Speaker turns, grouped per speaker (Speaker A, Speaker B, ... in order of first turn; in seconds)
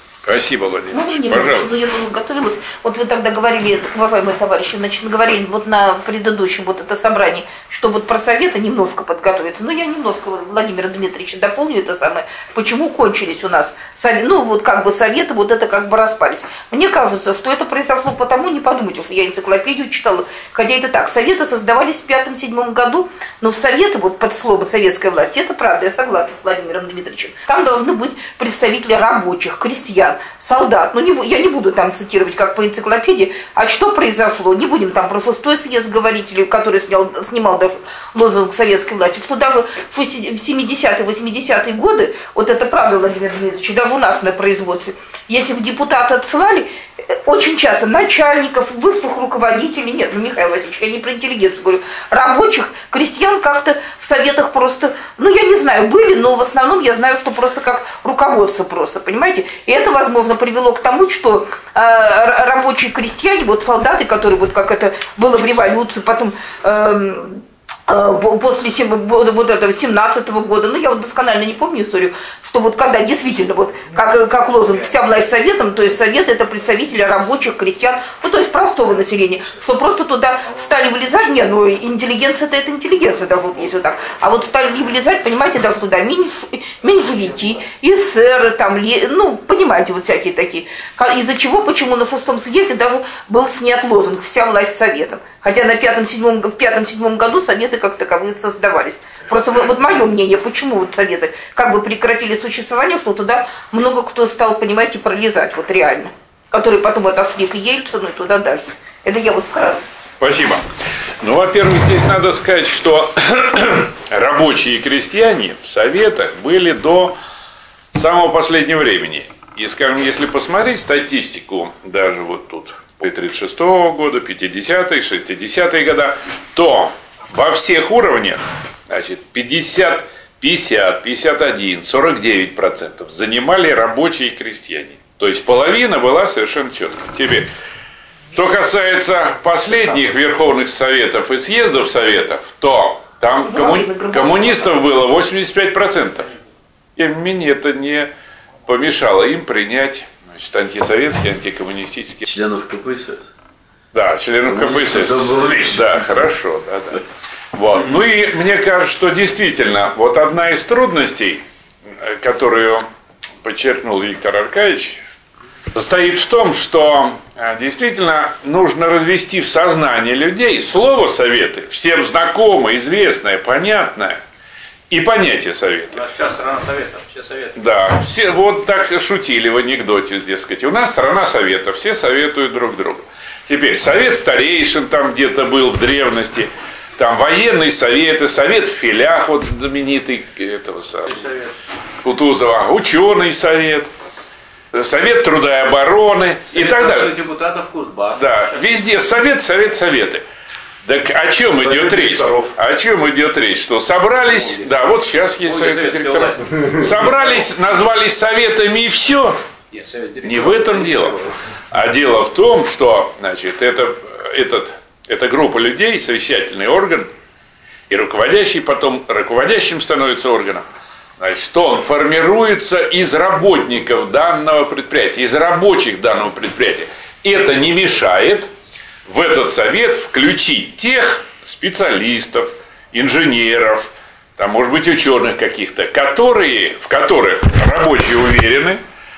Speaker A: 0.2-1.8, 110.2-110.6, 111.2-117.2, 117.9-137.5, 138.3-146.3, 146.9-148.1, 148.7-152.3, 153.9-157.0, 157.5-161.4, 162.0-162.8, 163.4-165.0, 165.7-174.2, 174.9-176.0, 177.6-191.1, 192.0-193.9, 194.7-197.1, 198.2-200.2, 200.8-209.4, 210.2-211.2, 211.7-217.1, 217.9-220.6, 221.2-228.5, 229.1-238.8
Speaker B: 0.9-109.8, 143.4-144.8
Speaker C: 152.3-153.3, 154.4-156.2
Speaker D: 175.9-177.6, 191.1-191.5, 196.5-198.8, 205.4-206.8, 209.7-211.3